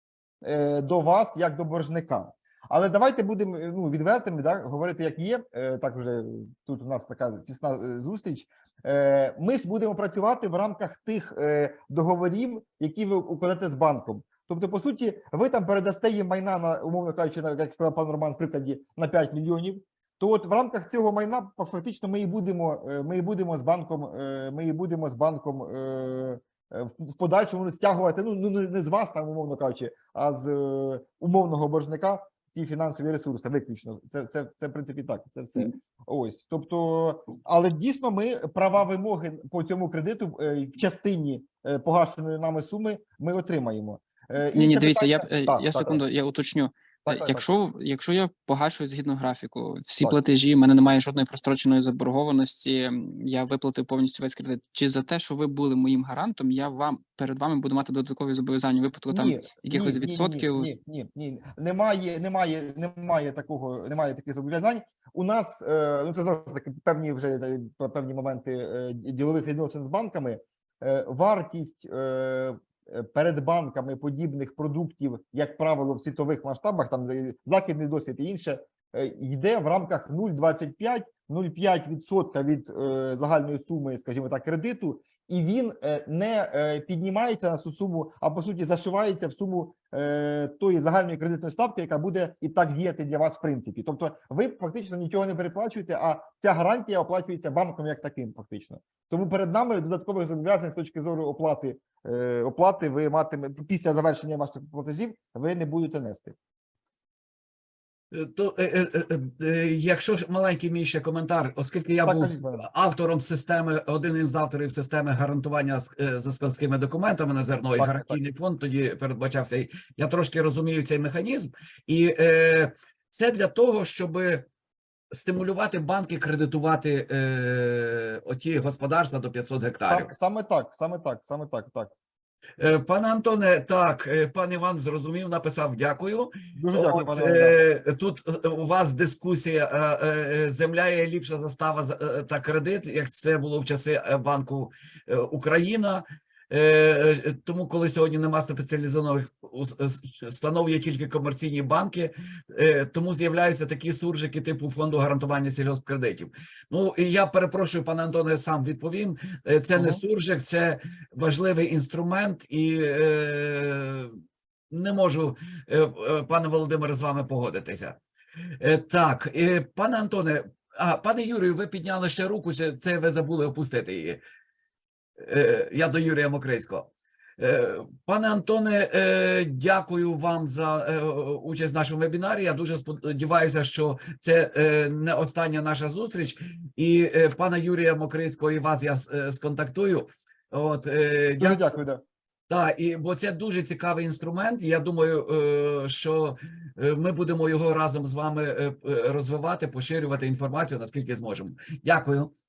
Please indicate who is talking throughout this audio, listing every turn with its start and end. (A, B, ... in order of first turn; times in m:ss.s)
0:00.4-0:46.0 A
0:44.5-1:00.7 B
0:47.1-0:47.5 A
0:59.1-1:46.4 A
1:48.1-2:04.5 C
1:52.0-1:52.6 A
1:57.8-1:58.2 A
2:05.1-2:10.1 C
2:09.9-2:11.9 A
2:12.6-2:44.2 C
2:16.6-2:17.6 A
2:39.8-2:40.0 A
2:44.7-2:48.0 C
2:48.6-2:54.2 C
2:55.2-3:11.6 C
3:11.4-3:12.0 A
3:12.5-3:22.3 C